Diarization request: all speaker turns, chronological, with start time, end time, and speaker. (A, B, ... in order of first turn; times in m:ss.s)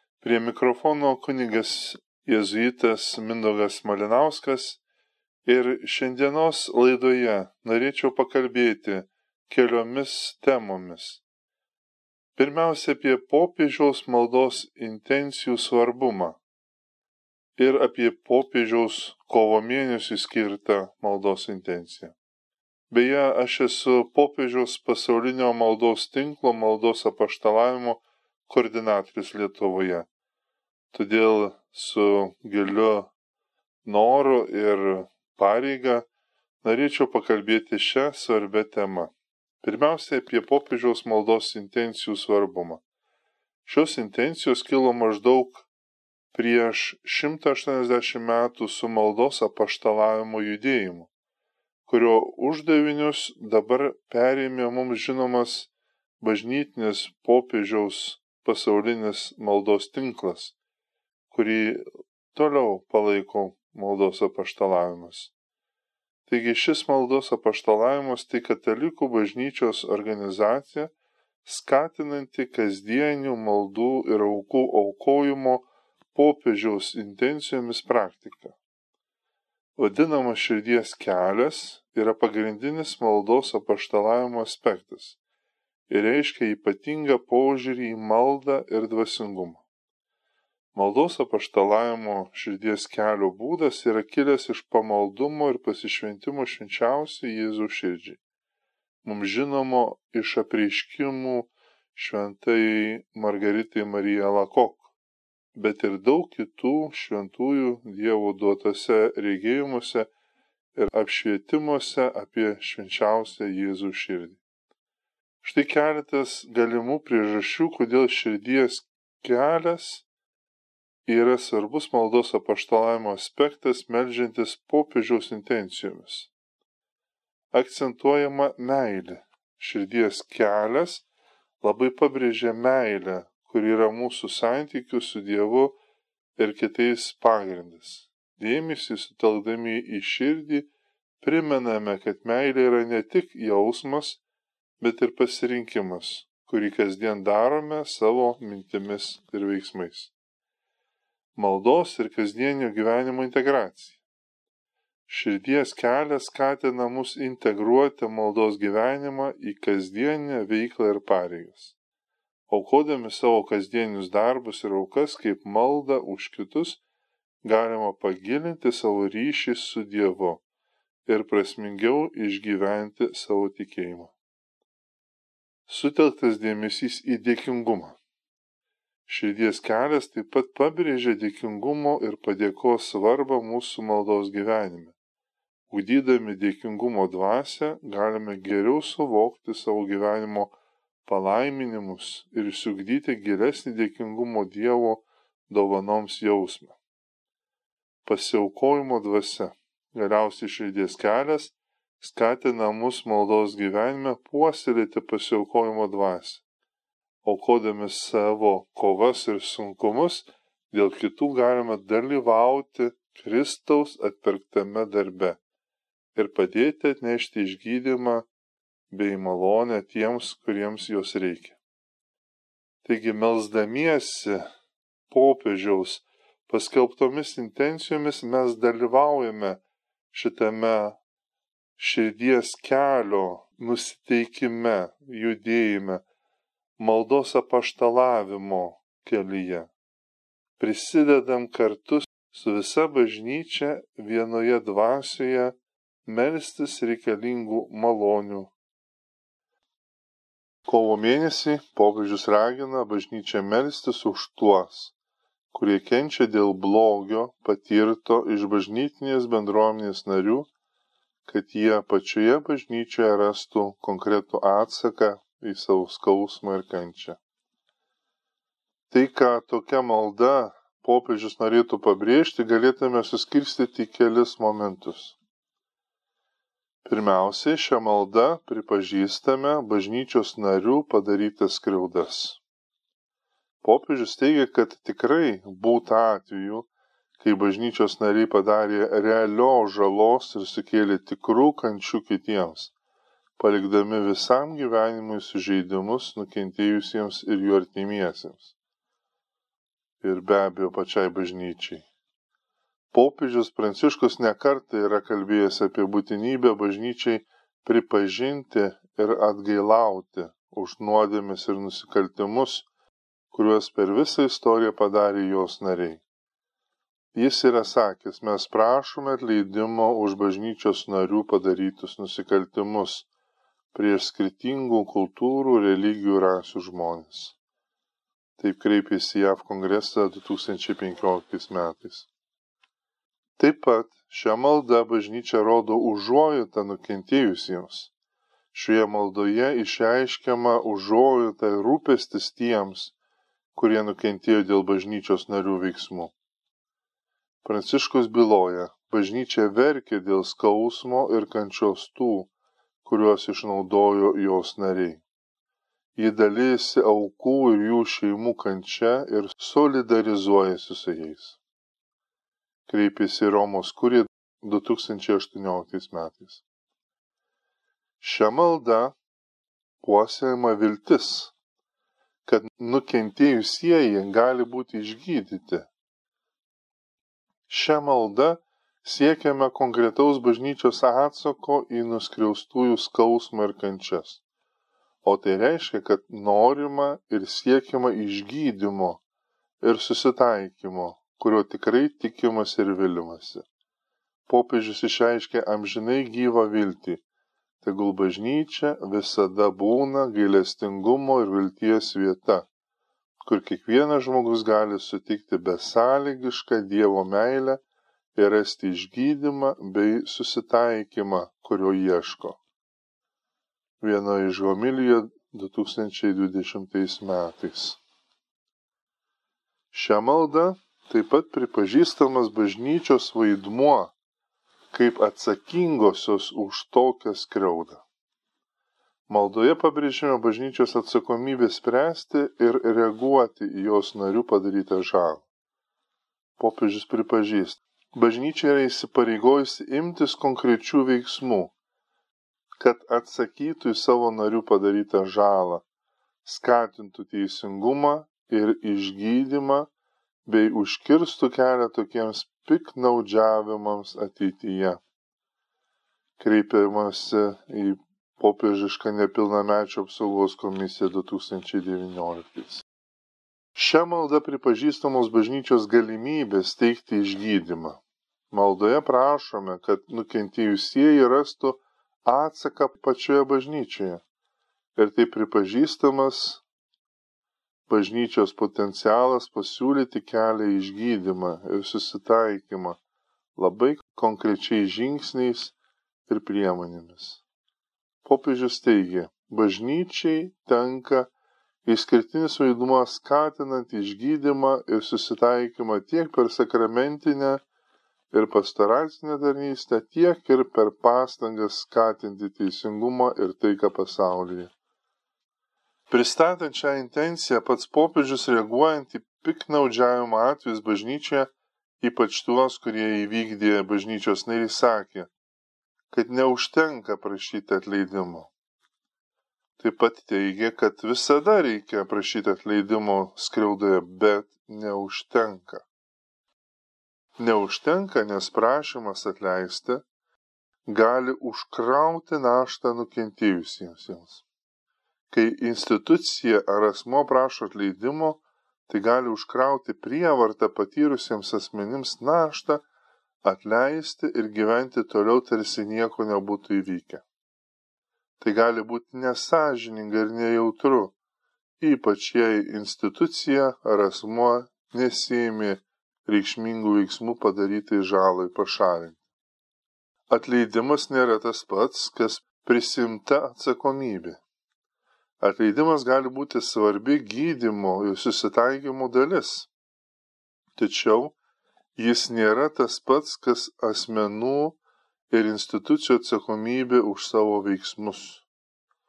0:00.2-0:04.8 A
0:05.4-0:11.2 A
0:12.4-0:16.4 A
0:17.6-0:22.1 A
0:22.9-0:30.1 A
0:30.9-0:33.1 A
0:33.8-0:36.1 A
0:36.6-0:42.8 A
0:43.6-0:45.7 A
0:46.3-0:51.1 A
0:51.8-0:55.7 A
0:56.2-1:00.5 A
1:01.3-1:05.3 A
1:06.3-1:10.9 A
1:11.4-1:18.6 A
1:19.8-1:25.2 A
1:25.9-1:29.6 A
1:30.7-1:38.2 A
1:39.0-1:44.9 A
1:45.5-1:50.1 A
1:50.7-1:54.4 A
1:55.4-2:00.0 A
2:01.0-2:06.3 A
2:07.5-2:11.0 A
2:11.6-2:15.8 A
2:16.4-2:20.7 A
2:21.2-2:24.2 A
2:24.8-2:30.1 A
2:31.3-2:34.0 A
2:35.1-2:41.7 A
2:42.5-2:46.8 A
2:47.4-2:50.4 A
2:51.0-2:54.1 A
2:55.7-2:58.0 A
2:59.1-3:04.9 A
3:05.7-3:10.5 A
3:11.0-3:16.8 A
3:18.0-3:26.4 A
3:27.2-3:35.4 A
3:36.1-3:38.3 A
3:38.9-3:41.6 A
3:42.8-3:44.5 A
3:45.1-3:49.6 A
3:50.1-3:51.0 A
3:51.8-3:56.0 A
3:56.8-3:59.7 A
4:00.6-4:08.5 A
4:10.6-4:14.9 A
4:15.5-4:20.5 A
4:21.2-4:27.2 A
4:28.9-4:35.2 A
4:36.8-4:42.4 A
4:43.6-4:46.7 A
4:47.2-4:52.7 A
4:53.4-4:58.5 A
5:00.0-5:01.8 A
5:02.9-5:12.7 A
5:13.3-5:16.0 A
5:17.1-5:23.1 A
5:23.7-5:27.4 A
5:28.4-5:32.1 A
5:33.4-5:37.9 A
5:38.5-5:42.9 A
5:43.5-5:46.1 A
5:47.4-5:52.3 A
5:52.8-5:55.0 A
5:55.9-6:01.4 A
6:02.7-6:06.4 A
6:08.0-6:09.0 A
6:09.8-6:11.3 A
6:12.2-6:15.7 A
6:17.5-6:24.2 A
6:25.0-6:29.0 A
6:29.6-6:33.4 A
6:34.3-6:37.0 A
6:37.6-6:42.5 A
6:43.2-6:47.6 A
6:48.1-6:52.4 A
6:53.8-6:57.8 A
6:59.7-7:03.9 A
7:04.7-7:07.8 A
7:09.1-7:15.2 A
7:16.4-7:21.5 A
7:22.6-7:25.6 A
7:26.2-7:29.7 A
7:30.2-7:34.8 A
7:36.2-7:42.6 A
7:43.5-7:47.8 A
7:48.3-7:54.0 A
7:54.8-7:56.4 A
7:57.7-8:02.8 A
8:03.4-8:05.5 A
8:06.1-8:07.2 A
8:08.0-8:11.1 A
8:11.6-8:17.4 A
8:18.1-8:24.5 A
8:25.9-8:35.1 A
8:35.9-8:38.3 A
8:39.6-8:45.6 A
8:47.2-8:49.8 A
8:50.6-8:54.2 A
8:55.1-9:02.6 A
9:03.2-9:07.0 A
9:08.2-9:10.9 A
9:11.6-9:19.0 A
9:20.1-9:24.2 A
9:25.2-9:29.5 A
9:30.6-9:31.2 A
9:31.8-9:34.6 A
9:35.1-9:38.2 A